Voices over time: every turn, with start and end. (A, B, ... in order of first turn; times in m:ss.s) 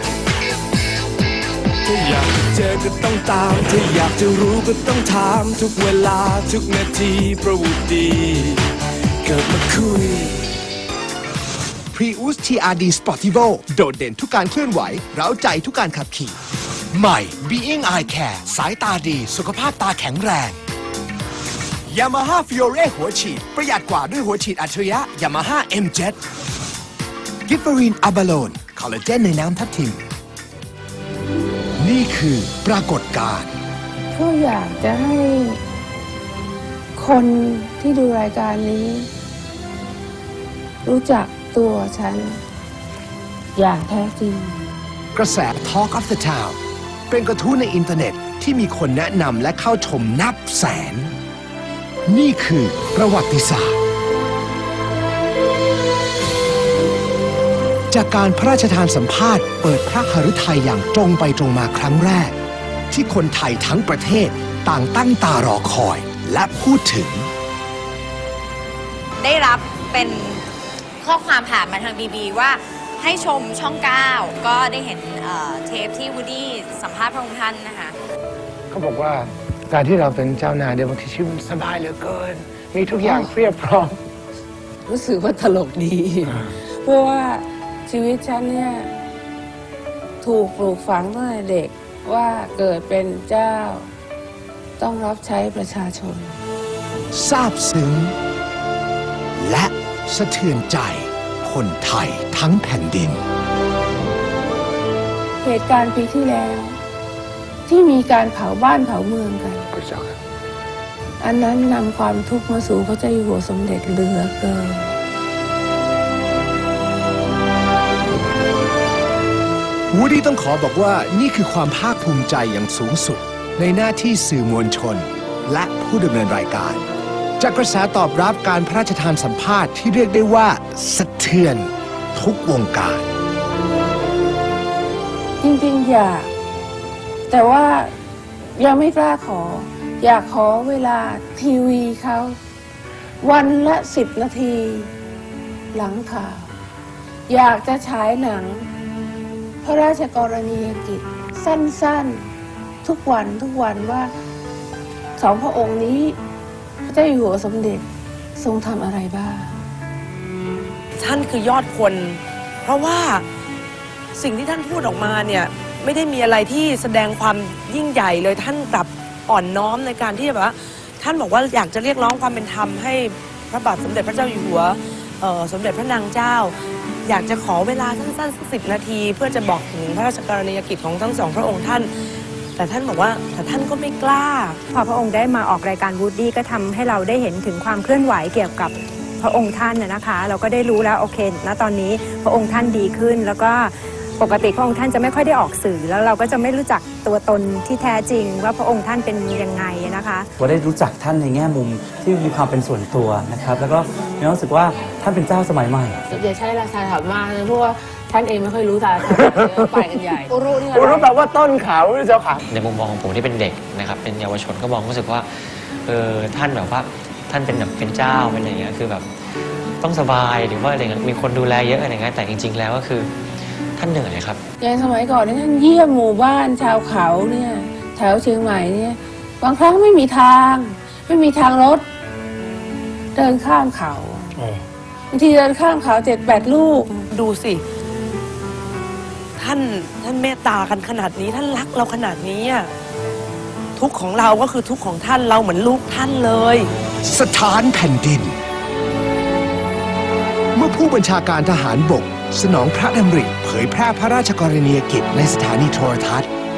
0:01.8-0:10.5 A
0:11.9-0:16.4 B
0:16.9-0:20.6 B
0:21.9-0:26.2 B
0:27.5-0:30.0 B
0:31.8-0:33.5 B
0:34.1-0:35.6 C
0:37.0-0:39.1 C
0:40.8-0:42.4 C
0:43.6-0:44.6 C
0:45.1-0:46.6 B
0:47.1-0:51.1 B
0:52.1-0:53.8 B
0:57.9-1:02.3 B
1:02.9-1:07.3 B
1:09.2-1:10.4 D
1:11.0-1:17.9 D
1:18.7-1:24.0 E
1:23.0-1:23.3 C
1:24.8-1:28.9 C
1:30.2-1:33.9 C
1:34.8-1:36.4 C
1:37.1-1:38.1 B
1:39.4-1:43.2 B
1:45.4-1:46.8 C
1:47.7-1:49.7 C
1:49.7-1:50.2 E
1:51.2-1:55.0 C
1:59.9-2:06.8 B
2:07.4-2:13.0 B
2:15.4-2:16.3 C
2:17.3-2:17.9 C
2:18.6-2:22.4 C
2:23.2-2:24.9 C
2:25.7-2:26.5 C
2:27.3-2:28.7 C
2:29.6-2:32.3 C
2:32.8-2:34.1 C
2:35.2-2:36.2 C
2:36.8-2:37.8 C
2:38.4-2:39.5 C
2:41.0-2:43.2 F
2:44.1-3:01.9 F
3:02.6-3:04.6 F
3:04.7-3:20.3 G
3:20.4-3:26.0 H
3:26.1-3:31.1 C
3:29.2-3:29.7 E
3:30.7-3:32.4 E
3:32.5-3:39.1 I
3:39.8-3:43.1 I
3:43.8-3:44.4 I
3:44.6-3:51.8 C
3:53.1-3:54.4 C
3:54.4-3:54.6 E
3:55.1-3:57.0 C
3:56.9-3:57.6 F
3:59.4-4:02.7 F
4:03.8-4:06.7 F
4:07.0-4:08.4 B
4:10.5-4:16.3 B